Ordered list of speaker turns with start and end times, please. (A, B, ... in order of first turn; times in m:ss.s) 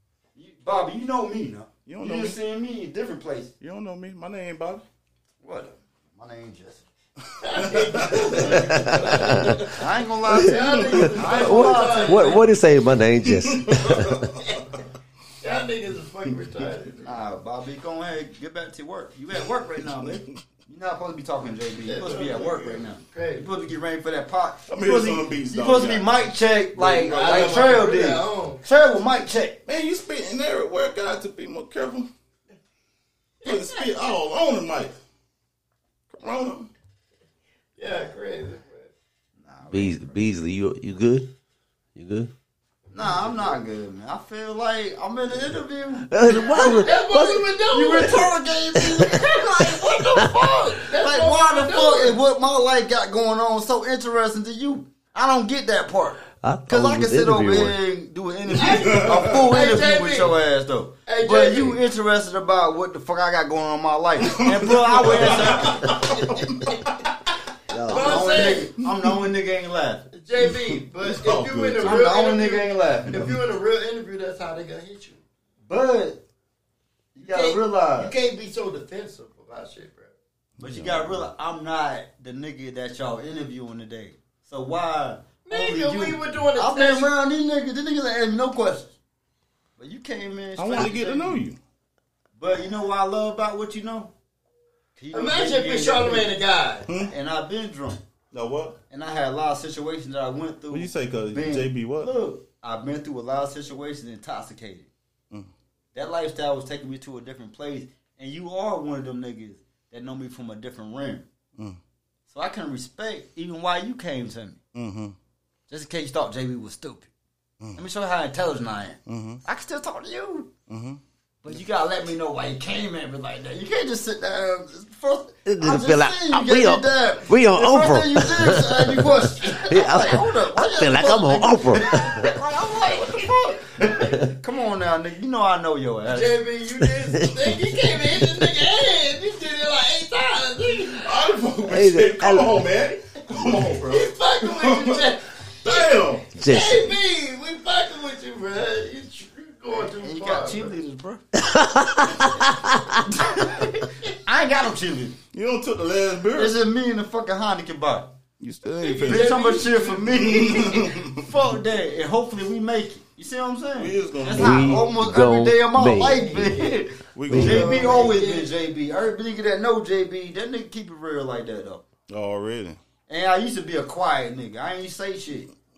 0:00.3-0:03.5 A
0:01.8-0:02.4 B
0:03.6-0:04.8 B
0:05.4-0:06.8 A
0:07.4-0:09.3 C
0:07.5-0:08.6 B
0:08.6-0:09.6 D
0:09.2-0:12.4 A
0:10.3-0:12.4 C
0:11.2-0:14.3 D
0:13.3-0:14.3 B
0:15.4-0:17.1 C
0:17.0-0:29.6 A
0:19.9-0:20.4 B
0:21.8-0:23.4 C
0:24.7-0:26.2 B
0:26.7-0:27.4 B
0:27.0-0:28.6 C
0:29.6-0:32.1 B
0:33.4-0:35.0 B
0:33.4-0:34.0 C
0:36.1-0:36.7 B
0:37.8-0:38.9 C
0:39.4-0:40.2 A
0:39.7-0:41.3 D
0:41.9-0:42.3 D
0:42.9-0:43.6 C
0:42.9-0:46.9 A
0:46.1-0:47.5 D
0:46.3-0:52.2 C
0:47.7-0:50.1 A
0:48.9-0:50.4 D
0:51.0-1:06.3 A
0:56.4-0:57.8 D
0:58.5-1:00.3 C
0:58.7-0:59.4 B
1:01.0-1:01.8 C
1:04.2-1:07.0 B
1:07.7-1:08.6 D
1:07.8-1:10.0 A
1:07.9-1:08.6 C
1:10.1-1:15.2 C
1:10.4-1:12.0 B
1:11.8-1:13.4 A
1:15.6-1:16.2 A
1:17.1-1:18.1 A
1:17.2-1:20.1 C
1:20.6-1:21.3 B
1:20.6-1:28.9 A
1:25.4-1:27.1 C
1:29.8-1:31.4 A
1:30.6-1:31.6 B
1:32.3-1:34.1 A
1:35.0-1:36.3 A
1:35.1-1:36.9 C
1:36.9-1:37.1 B
1:37.0-1:38.0 A
1:38.3-1:38.8 B
1:38.9-1:44.9 A
1:40.7-1:42.1 B
1:45.9-1:51.2 A
1:52.3-1:54.6 A
1:54.7-1:55.2 B
1:55.7-1:57.1 A
1:57.8-2:00.5 A
1:59.1-1:59.4 B
2:00.7-2:01.0 B
2:01.4-2:16.4 A
2:05.4-2:09.0 D
2:09.5-2:12.3 D
2:16.1-2:21.2 C
2:16.8-2:17.4 D
2:18.2-2:18.5 D
2:20.9-2:25.1 B
2:21.6-2:22.6 D
2:23.4-2:30.7 C
2:25.6-2:26.2 B
2:26.3-2:27.0 D
2:29.8-2:31.2 A
2:31.5-2:32.6 D
2:33.0-2:35.2 A
2:35.3-2:36.6 B
2:36.3-2:38.1 A
2:38.4-2:39.4 B
2:38.8-2:40.8 C
2:39.0-2:51.8 A
2:40.2-2:41.2 B
2:43.7-2:44.8 B
2:44.4-2:46.6 D
2:47.1-2:47.6 B
2:47.3-2:48.1 D
2:47.4-2:48.5 C
2:52.1-2:52.8 B
2:53.1-2:55.5 A